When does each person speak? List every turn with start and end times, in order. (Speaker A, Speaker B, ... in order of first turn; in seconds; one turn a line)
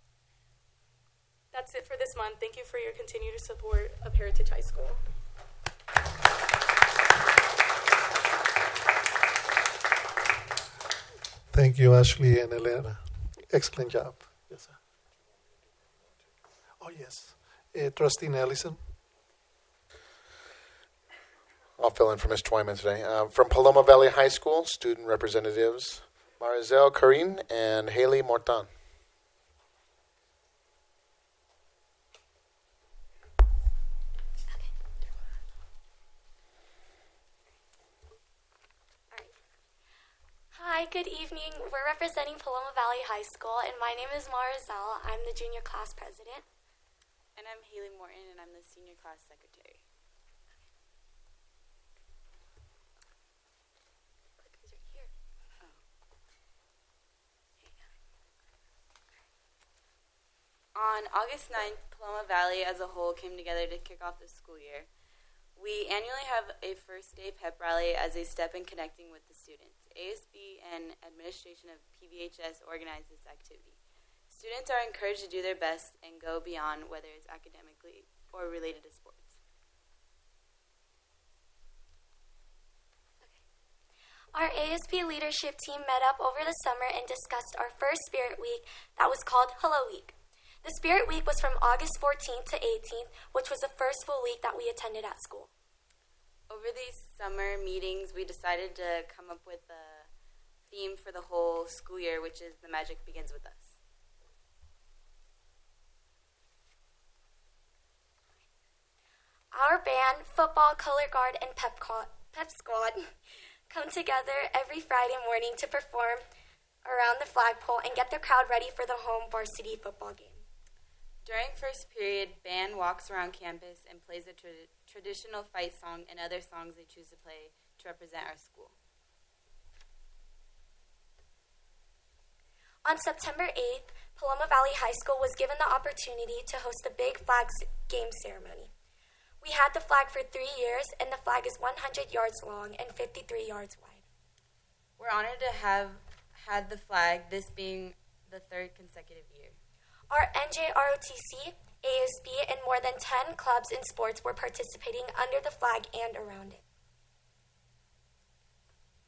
Speaker A: 1.5-5.0
Speaker B: 11.5-14.8
Speaker B: 16.8-18.8
Speaker C: 21.8-28.7
Speaker D: 40.5-46.5
Speaker E: 47.3-49.8
Speaker D: 54.4-55.1
Speaker E: 60.7-64.9
Speaker E: 65.5-79.4
Speaker D: 84.3-95.5
Speaker E: 96.5-100.1
Speaker E: 100.7-103.8
Speaker D: 109.5-113.1
Speaker D: 113.7-116.2
Speaker D: 116.8-120.4
Speaker E: 121.2-128.8
Speaker D: 132.8-138.7
Speaker D: 139.4-144.0
Speaker E: 145.0-149.6
Speaker D: 150.1-156.6